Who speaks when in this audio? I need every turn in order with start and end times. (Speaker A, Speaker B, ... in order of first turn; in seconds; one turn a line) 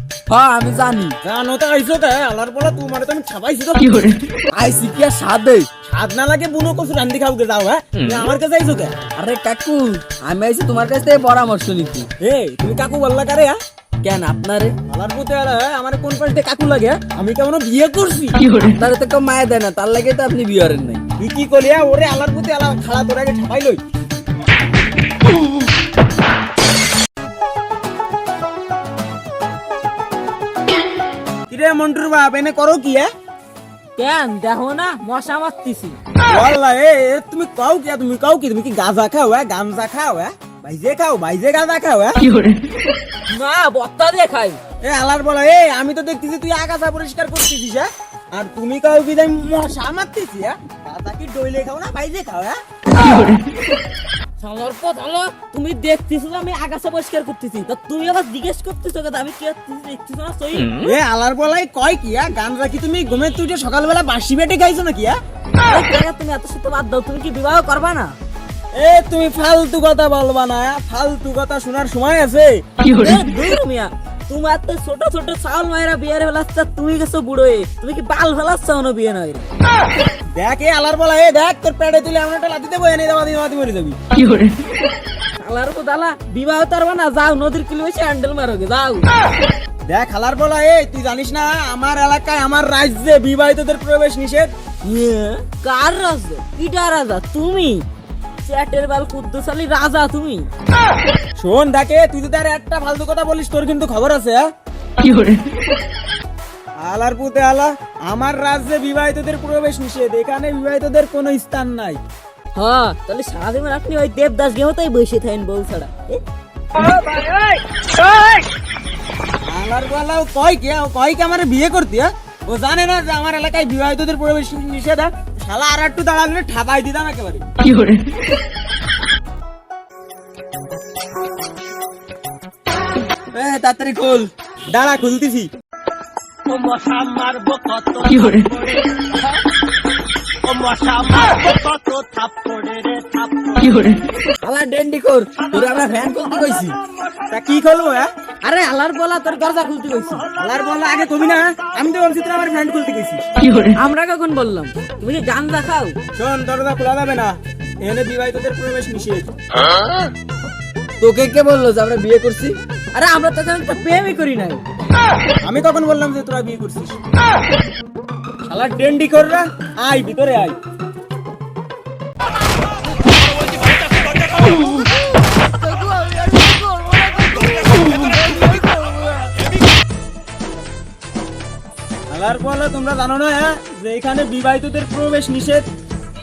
Speaker A: 0.3-1.2
Speaker B: 1.2-4.1
Speaker A: 4.5-5.7
Speaker B: 5.8-9.0
Speaker A: 9.2-12.1
Speaker B: 12.2-13.6
Speaker A: 14.0-14.8
Speaker B: 14.9-18.5
Speaker A: 18.6-21.0
Speaker B: 21.2-23.8
Speaker B: 31.5-33.1
Speaker C: 34.0-36.0
Speaker B: 36.3-42.3
Speaker C: 43.3-44.6
Speaker B: 44.8-52.6
Speaker C: 54.4-60.8
Speaker B: 60.8-65.2
Speaker C: 65.7-68.2
Speaker B: 68.8-72.6
Speaker C: 72.8-79.4
Speaker B: 80.4-84.0
Speaker C: 85.4-89.1
Speaker B: 89.9-94.5
Speaker C: 94.8-97.8
Speaker C: 98.4-100.5
Speaker B: 101.4-104.5
Speaker B: 106.8-112.0
Speaker C: 112.5-116.2
Speaker C: 116.8-117.4
Speaker B: 119.5-127.4
Speaker A: 133.3-134.3
Speaker B: 134.7-135.5
Speaker C: 136.5-139.1
Speaker C: 140.4-143.9
Speaker A: 144.4-146.8
Speaker B: 147.3-148.1
Speaker C: 148.4-150.3
Speaker B: 150.4-153.2
Speaker C: 153.6-156.0
Speaker B: 156.2-159.3
Speaker A: 161.0-162.6
Speaker C: 162.9-164.6
Speaker B: 165.4-167.0
Speaker B: 168.5-170.6
Speaker C: 174.4-179.0
Speaker B: 182.1-185.7